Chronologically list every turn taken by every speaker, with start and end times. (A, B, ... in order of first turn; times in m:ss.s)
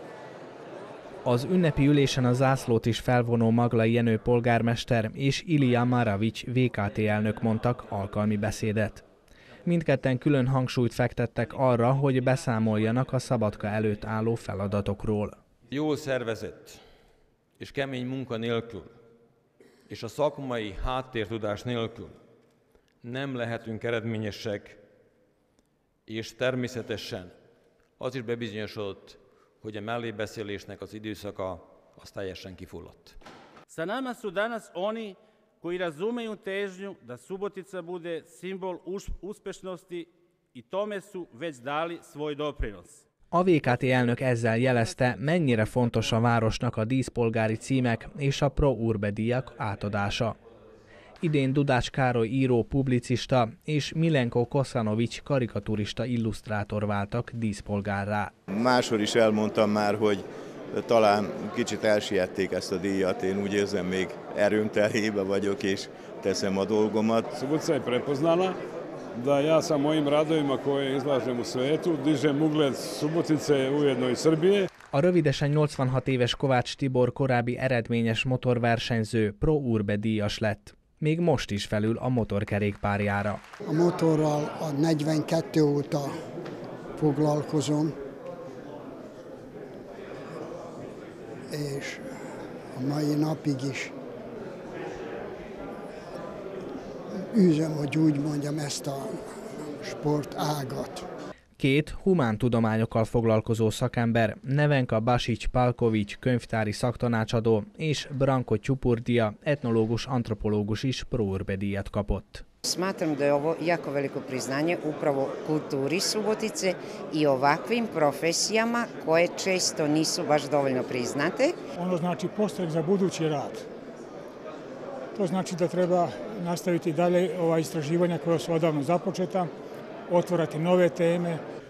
0:01.2-0:09.0 A
0:09.6-0:15.4 A
0:15.7-0:16.8 B
0:17.6-0:18.9 B
0:19.9-0:22.2 B
0:23.0-0:24.8 B
0:26.1-0:27.3 B
0:28.0-0:33.2 B
0:33.7-0:43.0 C
0:43.3-0:50.4 A
0:51.2-0:58.3 A
0:58.5-1:07.3 D
1:07.3-1:08.6 E
1:09.2-1:14.7 E
1:14.9-1:23.4 A
1:23.6-1:26.2 F
1:27.0-1:27.9 F
1:31.5-1:32.0 F
1:32.7-1:33.9 F
1:37.2-1:41.0 F
1:41.6-1:52.4 A
1:52.6-2:01.6 G
2:01.8-2:03.6 H
2:05.1-2:09.5 H
2:10.1-2:11.4 H